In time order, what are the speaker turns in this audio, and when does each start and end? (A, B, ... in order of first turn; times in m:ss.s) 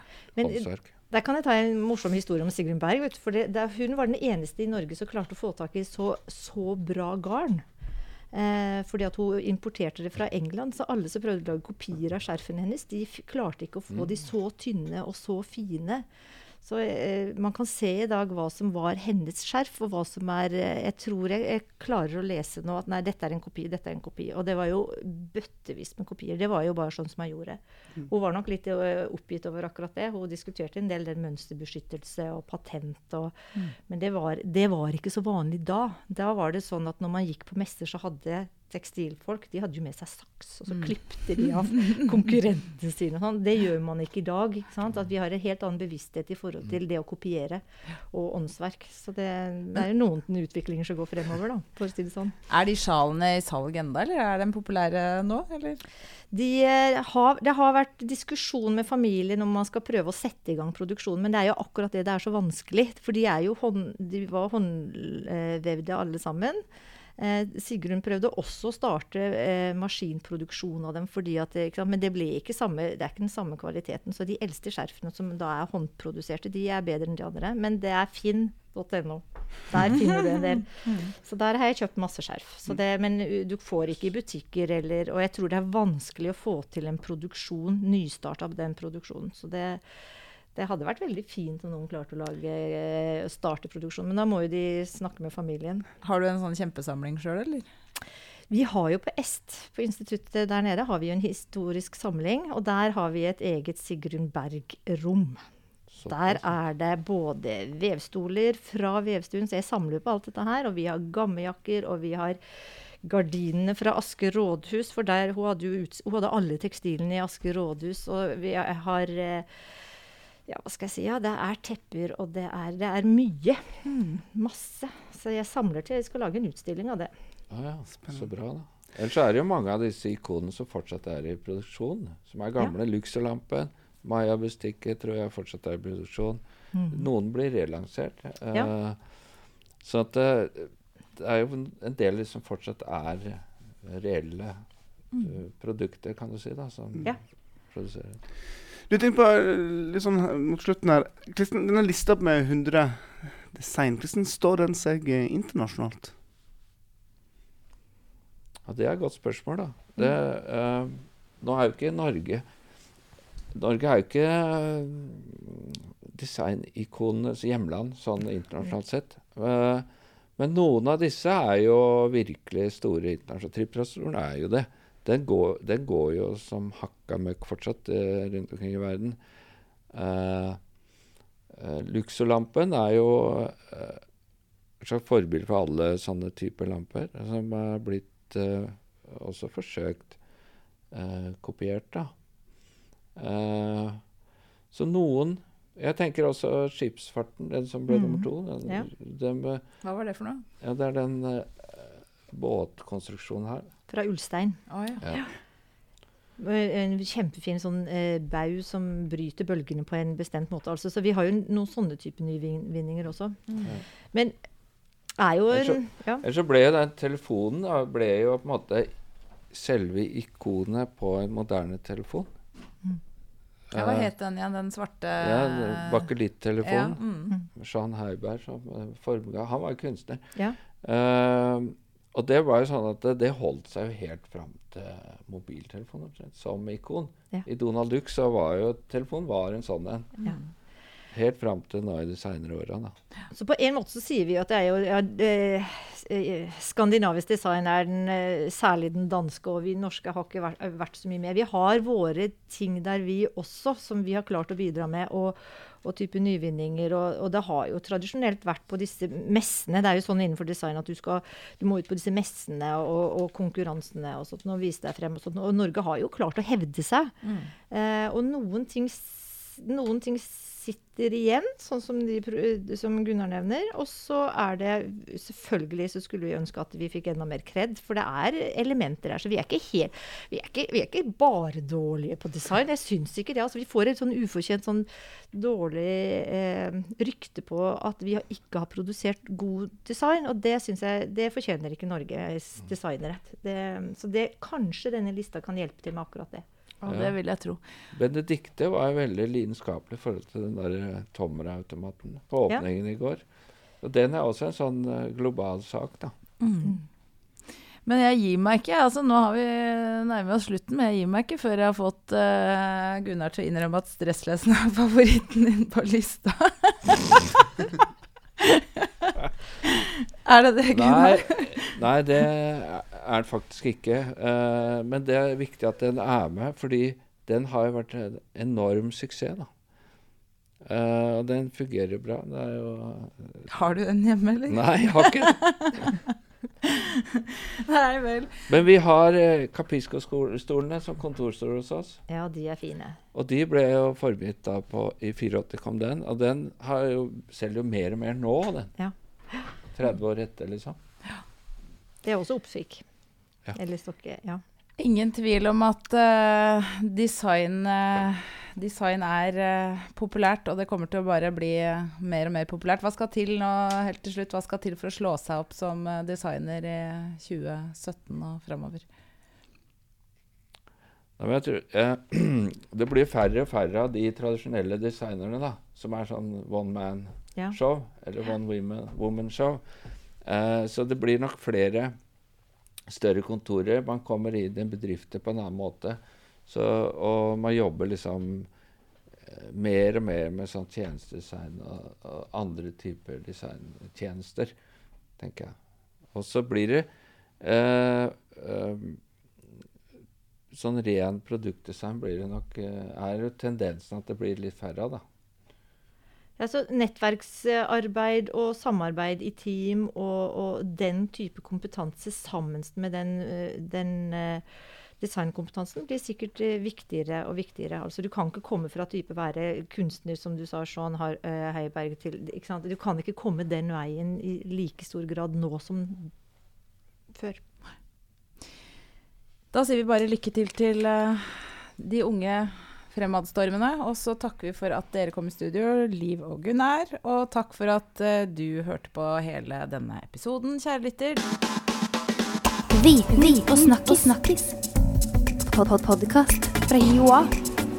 0:00.4-0:07.6 A
0:00.4-0:00.8 B
0:08.3-0:16.0 A
0:16.6-0:33.4 A
0:33.9-0:52.4 A
0:52.5-0:55.8 C
0:56.3-1:06.6 A
1:07.2-1:29.8 A
1:30.5-1:35.9 A
1:36.0-1:37.7 C
1:38.5-1:45.4 A
1:45.9-1:46.5 B
1:46.0-1:52.4 A
1:53.0-1:59.5 A
2:00.5-2:07.1 A
2:03.8-2:04.2 C
2:07.5-2:19.0 B
2:16.7-2:17.0 A
2:19.8-2:24.6 B
2:25.2-2:27.2 B
2:27.7-2:28.2 B
2:28.9-2:36.1 D
2:38.6-2:42.4 B
2:43.5-2:59.2 B
2:59.9-3:00.6 B
3:01.5-3:04.0 B
3:04.8-3:10.2 B
3:10.9-3:12.1 B
3:13.2-3:14.0 B
3:14.7-3:19.6 B
3:17.9-3:18.9 A
3:19.8-3:20.4 C
3:20.6-3:23.7 B
3:23.9-3:25.3 A
3:24.7-3:25.0 C
3:26.4-3:33.4 A
3:35.2-3:36.2 A
3:35.5-3:38.9 B
3:39.5-3:42.3 B
3:43.7-3:44.1 B
3:43.7-3:46.0 C
3:45.2-4:00.1 B
3:46.6-3:47.3 C
4:01.1-4:02.9 B
4:03.3-4:27.2 A
4:27.2-4:27.5 C
4:27.7-4:56.4 A
4:56.8-4:57.6 C
4:56.9-4:57.2 B
4:57.9-5:03.2 B
5:03.8-5:06.1 B
5:06.4-5:06.8 C
5:07.8-5:17.7 C
5:18.4-5:21.8 C
5:20.7-5:29.5 B
5:30.6-5:33.5 B
5:33.5-5:38.5 C
5:34.5-5:35.8 B
5:38.5-5:42.0 B
5:42.1-5:43.0 A
5:43.1-5:48.7 B
5:48.8-5:49.5 A
5:49.7-5:50.8 B
5:52.0-5:52.8 A
5:53.5-5:54.4 A
5:54.8-6:08.8 C
6:11.2-6:19.6 B
6:20.2-6:21.9 B
6:22.9-6:28.5 B
6:29.2-6:34.5 B
6:35.2-6:35.6 B
6:36.1-6:36.9 B
6:37.4-6:39.0 B
6:40.5-6:45.0 B
6:46.4-6:54.4 A
6:55.0-7:06.1 A
7:07.1-7:07.4 A
7:09.5-7:21.2 C
7:22.7-7:24.5 E
7:23.1-7:24.3 C
7:25.5-7:27.3 E